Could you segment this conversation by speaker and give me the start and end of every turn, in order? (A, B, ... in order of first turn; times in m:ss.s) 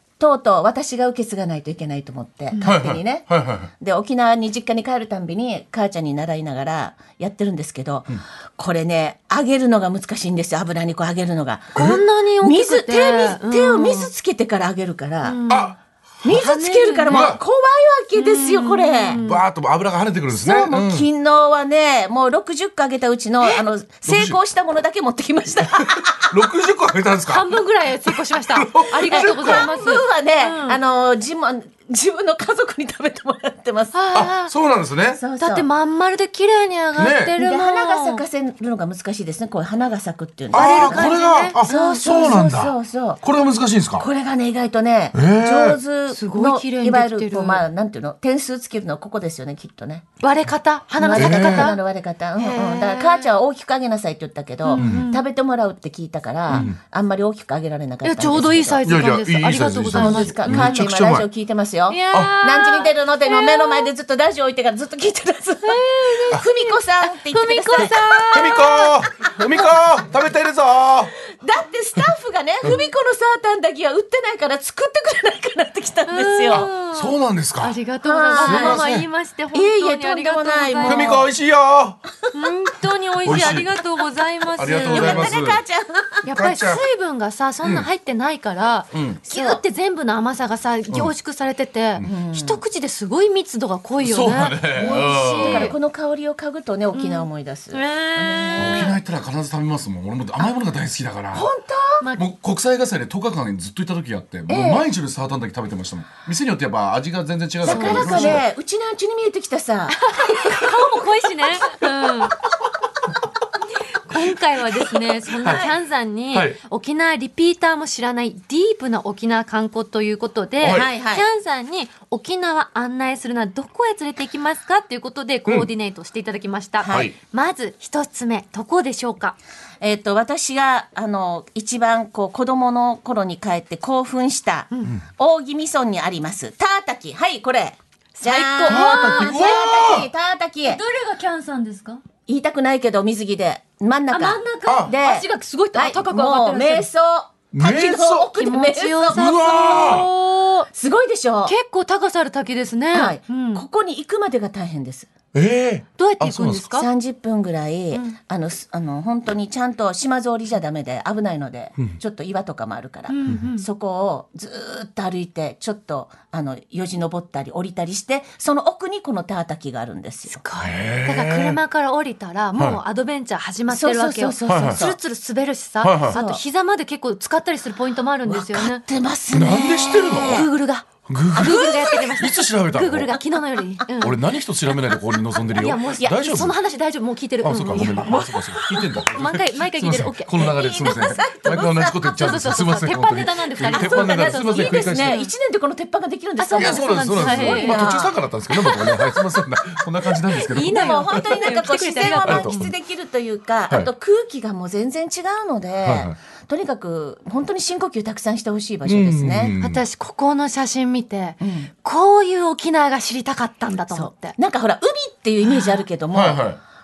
0:00.2-0:15.4 A
0:02.6-0:03.7 B
0:11.7-0:14.1 C
0:11.8-0:12.0 B
0:15.2-0:15.7 C
0:15.5-0:15.8 B
0:16.2-0:19.2 A
0:16.3-0:17.3 C
0:17.1-0:17.4 B
0:18.1-0:19.4 C
0:19.1-0:21.1 B
0:20.3-0:26.3 A
0:24.1-0:24.4 B
0:25.8-0:27.5 B
0:27.3-0:30.8 C
0:28.0-0:29.6 B
0:29.1-0:34.0 A
0:33.9-0:34.5 C
0:34.1-0:35.2 B
0:35.1-0:35.7 A
0:35.4-0:38.2 C
0:37.0-0:37.3 B
0:37.4-0:43.2 A
0:40.5-0:42.4 C
0:40.5-0:44.1 B
0:44.0-0:50.0 A
0:45.1-0:45.8 B
0:46.1-0:47.6 C
0:50.2-0:51.8 C
0:51.0-0:58.8 A
0:51.1-0:51.7 B
0:52.4-0:53.3 C
0:54.6-0:55.2 C
0:54.8-0:55.1 B
0:56.5-0:56.8 B
0:58.0-1:00.8 C
0:58.8-1:01.3 B
0:59.9-1:08.7 A
1:01.9-1:03.9 C
1:05.6-1:08.9 C
1:08.3-1:11.1 B
1:11.3-1:16.6 A
1:16.1-1:21.2 C
1:16.5-1:17.8 B
1:18.0-1:18.9 A
1:18.4-1:19.1 B
1:19.5-1:21.3 A
1:20.8-1:22.0 B
1:22.3-1:25.3 C
1:23.2-1:23.6 A
1:23.2-1:23.7 B
1:24.5-1:25.6 B
1:24.7-1:26.2 A
1:26.2-1:35.7 C
1:26.3-1:26.8 B
1:27.6-1:27.9 B
1:28.9-1:29.2 B
1:29.2-1:29.6 A
1:32.0-1:32.6 A
1:34.0-1:35.7 B
1:34.8-1:38.9 A
1:36.9-1:38.9 C
1:38.6-1:41.5 B
1:41.3-1:42.0 A
1:42.2-1:48.4 B
1:44.5-1:44.8 A
1:47.6-1:51.1 A
1:47.6-1:48.4 C
1:49.9-1:52.4 C
1:53.8-2:09.4 C
1:55.4-1:55.7 B
1:55.4-1:55.7 A
1:56.3-1:56.6 B
2:00.6-2:00.9 B
2:00.7-2:01.2 A
2:06.8-2:07.1 A
2:06.9-2:07.1 B
2:09.8-2:20.8 A
2:14.7-2:15.0 C
2:18.2-2:19.6 C
2:18.6-2:20.1 B
2:20.6-2:22.0 C
2:22.3-2:30.0 A
2:24.1-2:26.9 C
2:24.6-2:24.9 B
2:27.5-2:28.3 B
2:28.4-2:30.7 C
2:29.1-2:30.1 B
2:30.7-2:31.5 A
2:31.4-2:33.6 C
2:32.9-2:35.1 A
2:35.3-2:36.6 B
2:36.0-2:36.9 C
2:36.7-2:50.4 A
2:43.1-2:43.6 C
2:50.3-2:58.8 C
2:50.6-2:51.6 B
2:53.7-2:55.0 A
2:54.4-2:54.8 B
2:55.8-2:56.2 B
2:56.1-2:56.4 A
2:58.2-3:00.5 A
2:59.3-3:00.5 B
3:00.3-3:04.2 C
3:01.0-3:03.2 B
3:01.4-3:02.1 A
3:04.0-3:06.6 B
3:05.5-3:08.2 C
3:07.4-3:15.2 B
3:07.7-3:09.0 A
3:08.8-3:11.1 C
3:10.3-3:12.3 A
3:12.0-3:15.3 C
3:13.6-3:18.2 A
3:16.4-3:19.1 C
3:16.5-3:21.4 B
3:20.3-3:22.6 C
3:20.5-3:29.5 A
3:22.1-3:22.7 B
3:25.8-3:26.1 B
3:28.8-3:29.8 B
3:29.6-3:34.4 C
3:31.4-3:31.7 A
3:33.9-3:36.4 A
3:35.4-3:35.8 C
3:36.1-3:36.6 B